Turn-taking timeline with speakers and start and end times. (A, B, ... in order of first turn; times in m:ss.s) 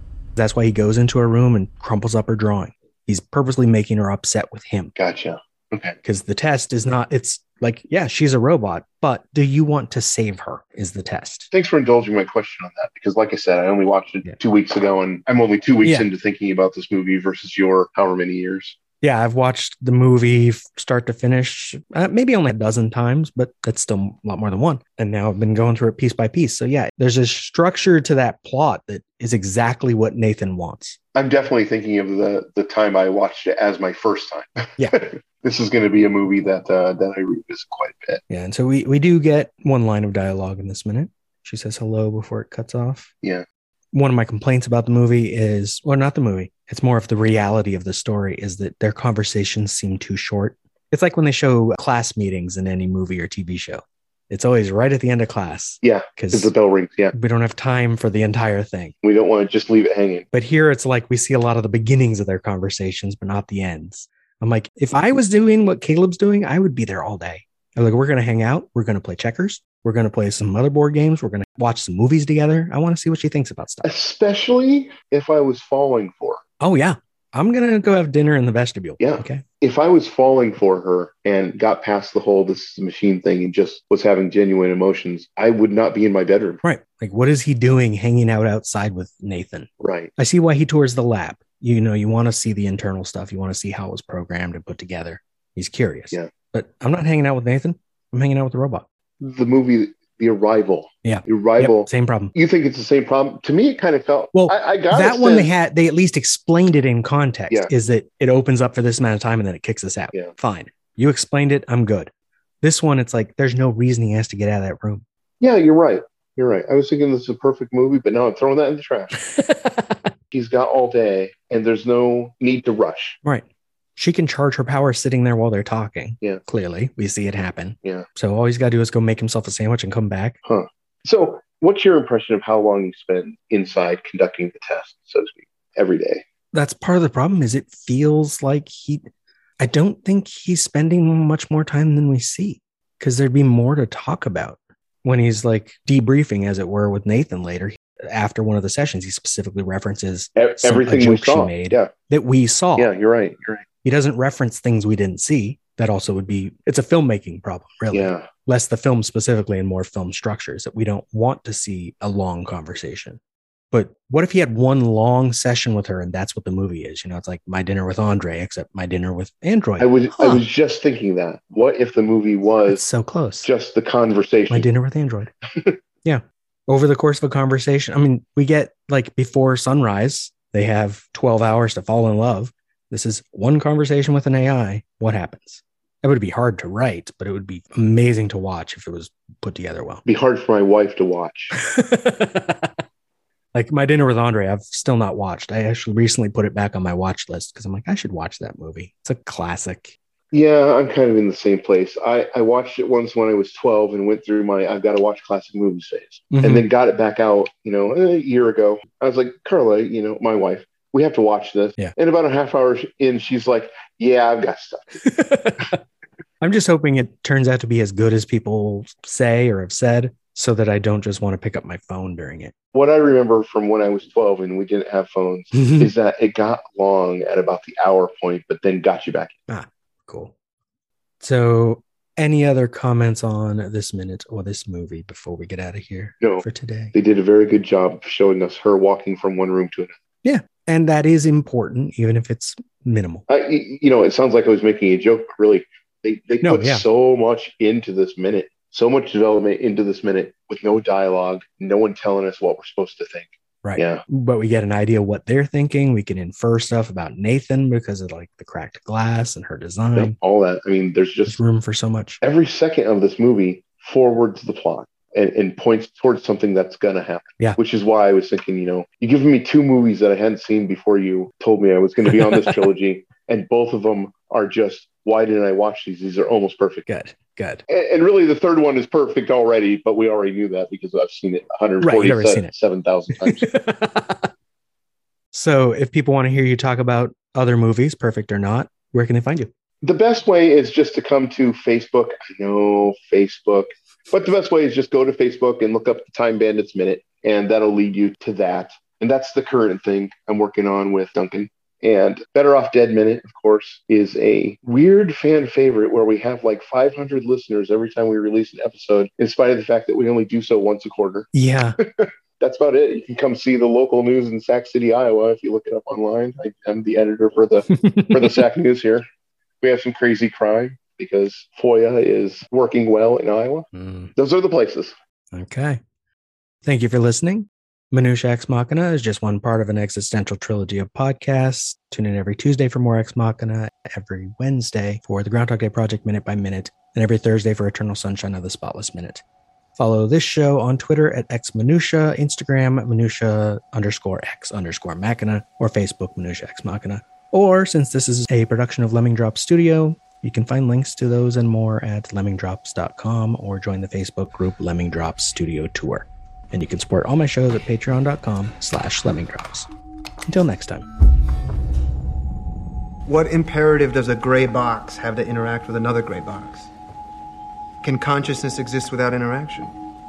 0:00.4-0:04.9 A
0:05.0-0:06.0 B
0:06.0-0:11.5 A
0:11.5-0:18.8 B
0:19.0-0:31.0 A
0:31.2-0:38.2 B
0:38.3-0:43.1 A
0:43.9-0:56.5 A
0:55.8-0:57.1 B
0:57.1-0:59.0 A
0:59.0-1:00.3 B
1:00.3-1:13.9 A
1:13.8-1:16.4 B
1:16.6-1:19.4 A
1:19.0-1:26.6 B
1:26.6-1:38.8 A
1:29.8-1:30.1 B
1:39.2-1:45.5 B
1:41.0-1:42.3 A
1:44.3-1:52.1 A
1:52.6-1:55.0 A
1:55.4-1:59.2 B
1:59.3-2:00.1 A
2:00.3-2:03.2 B
2:04.0-2:10.4 A
2:10.4-2:16.2 B
2:16.5-2:19.1 A
2:19.6-2:32.9 A
2:30.4-2:31.9 B
2:32.8-2:33.6 B
2:33.8-2:43.2 A
2:37.9-2:38.3 B
2:43.7-2:50.4 A
2:49.8-2:52.8 B
2:52.7-2:53.5 A
2:53.4-2:54.7 B
2:54.5-2:55.3 A
2:55.5-2:55.8 B
2:56.0-3:10.0 A
3:10.0-3:11.6 B
3:11.6-3:12.8 A
3:13.5-3:20.0 A
3:20.3-3:35.0 B
3:26.3-3:26.7 A
3:35.0-3:35.8 A
3:36.4-3:42.5 A
3:42.7-3:49.4 B
3:45.6-3:45.9 A
3:49.5-3:50.3 A
3:51.2-3:56.9 A
3:56.2-3:59.9 B
4:00.2-4:03.2 A
4:03.3-4:14.0 B
4:06.4-4:06.8 A
4:13.6-4:20.2 A
4:20.0-4:21.4 B
4:21.3-4:22.2 A
4:22.2-4:36.9 B
4:36.9-4:37.6 A
4:37.7-4:43.5 B
4:41.8-4:42.5 A
4:43.2-4:44.3 A
4:45.3-4:49.5 A
4:49.8-5:11.3 B
5:11.3-5:11.8 A
5:11.8-5:19.0 B
5:17.7-5:18.4 A
5:19.6-5:24.9 B
5:23.7-5:24.1 A
5:25.3-5:25.8 A
5:26.6-5:39.2 A
5:39.8-5:59.7 A
6:00.2-6:00.9 A
6:03.1-6:06.7 C
6:07.8-6:09.8 C